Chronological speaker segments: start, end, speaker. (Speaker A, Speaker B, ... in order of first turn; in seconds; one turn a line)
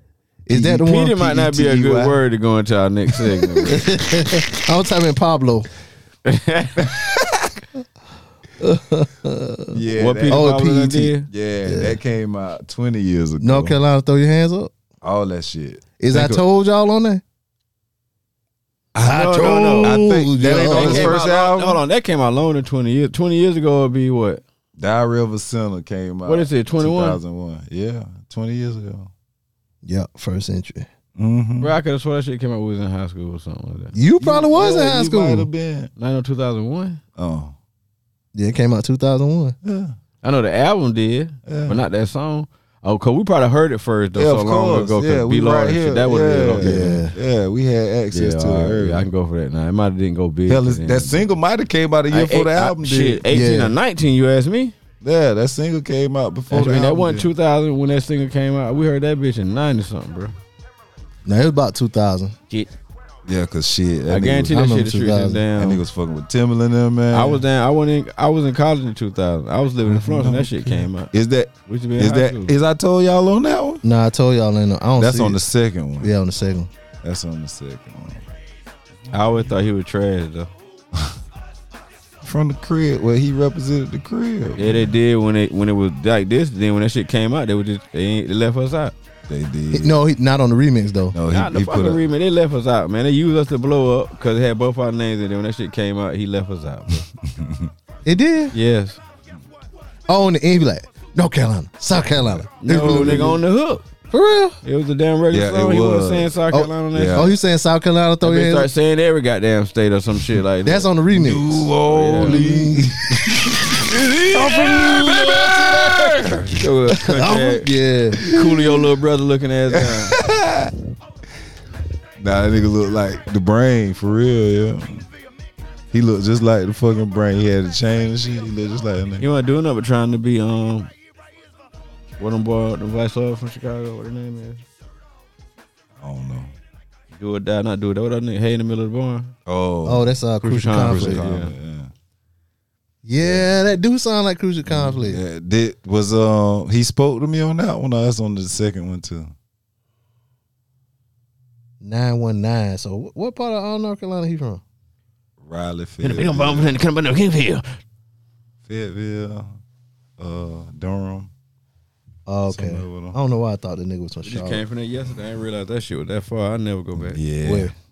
Speaker A: 0.5-1.2
Speaker B: 0.5-4.0
Speaker C: 1.1-2.2
Speaker A: 3.7-5.7
Speaker B: 6.2-7.0
Speaker C: 6.8-7.6
Speaker A: 8.6-11.1
Speaker C: 9.7-13.8
Speaker B: 9.9-11.3
Speaker A: 11.6-12.0
Speaker A: 13.4-14.7
Speaker C: 15.0-16.4
Speaker A: 16.0-17.2
Speaker C: 18.9-21.8
Speaker B: 19.0-20.0
Speaker A: 19.0-21.2
Speaker B: 20.5-24.4
Speaker C: 24.8-29.1
Speaker B: 26.2-27.2
Speaker A: 29.8-30.9
Speaker C: 31.1-31.8
Speaker B: 31.6-33.9
Speaker A: 33.9-35.5
Speaker C: 34.2-35.9
Speaker B: 36.0-37.0
Speaker C: 37.1-37.5
Speaker A: 38.3-39.5
Speaker C: 39.6-40.0
Speaker B: 40.2-47.0
Speaker C: 41.5-41.8
Speaker C: 44.1-49.1
Speaker A: 46.6-47.1
Speaker B: 48.1-51.2
Speaker C: 50.5-53.2
Speaker B: 52.1-54.7
Speaker A: 53.3-53.8
Speaker C: 55.0-57.3
Speaker B: 56.5-60.3
Speaker A: 61.2-62.4
Speaker C: 63.2-64.6
Speaker B: 64.1-65.8
Speaker A: 64.5-65.4
Speaker C: 65.5-67.4
Speaker B: 67.1-71.1
Speaker C: 69.8-73.8
Speaker B: 71.7-72.5
Speaker A: 73.8-75.4
Speaker C: 75.0-76.1
Speaker A: 76.0-76.7
Speaker C: 77.0-78.2
Speaker B: 79.1-80.5
Speaker C: 82.2-84.9
Speaker B: 84.6-88.9
Speaker C: 89.3-89.9
Speaker A: 89.7-91.2
Speaker C: 91.1-92.0
Speaker B: 91.3-97.1
Speaker C: 97.2-97.7
Speaker A: 98.0-98.5
Speaker B: 98.5-99.0
Speaker A: 100.1-103.4
Speaker C: 102.3-103.3
Speaker B: 102.6-103.8
Speaker A: 104.1-104.6
Speaker B: 104.6-107.3
Speaker C: 105.3-106.3
Speaker A: 106.5-108.7
Speaker C: 106.9-107.3
Speaker B: 108.2-110.9
Speaker A: 110.6-112.9
Speaker C: 111.1-116.6
Speaker B: 111.8-112.4
Speaker B: 113.8-117.7
Speaker A: 117.0-118.2
Speaker C: 118.2-118.8
Speaker B: 118.2-120.2
Speaker C: 119.7-120.7
Speaker C: 122.2-125.0
Speaker C: 125.9-129.2
Speaker B: 129.2-130.9
Speaker B: 132.2-134.6
Speaker C: 136.0-136.5
Speaker B: 137.1-139.3
Speaker C: 139.5-140.1
Speaker A: 139.8-141.2
Speaker B: 140.4-141.5
Speaker C: 140.7-141.9
Speaker A: 143.0-145.2
Speaker C: 143.2-143.5
Speaker C: 144.7-149.3
Speaker A: 151.8-154.6
Speaker C: 155.4-156.8
Speaker B: 156.0-157.7
Speaker C: 158.6-159.5
Speaker C: 160.2-161.3
Speaker A: 162.3-164.6
Speaker C: 162.5-163.2
Speaker B: 164.2-167.2
Speaker C: 166.9-167.7
Speaker A: 167.4-167.7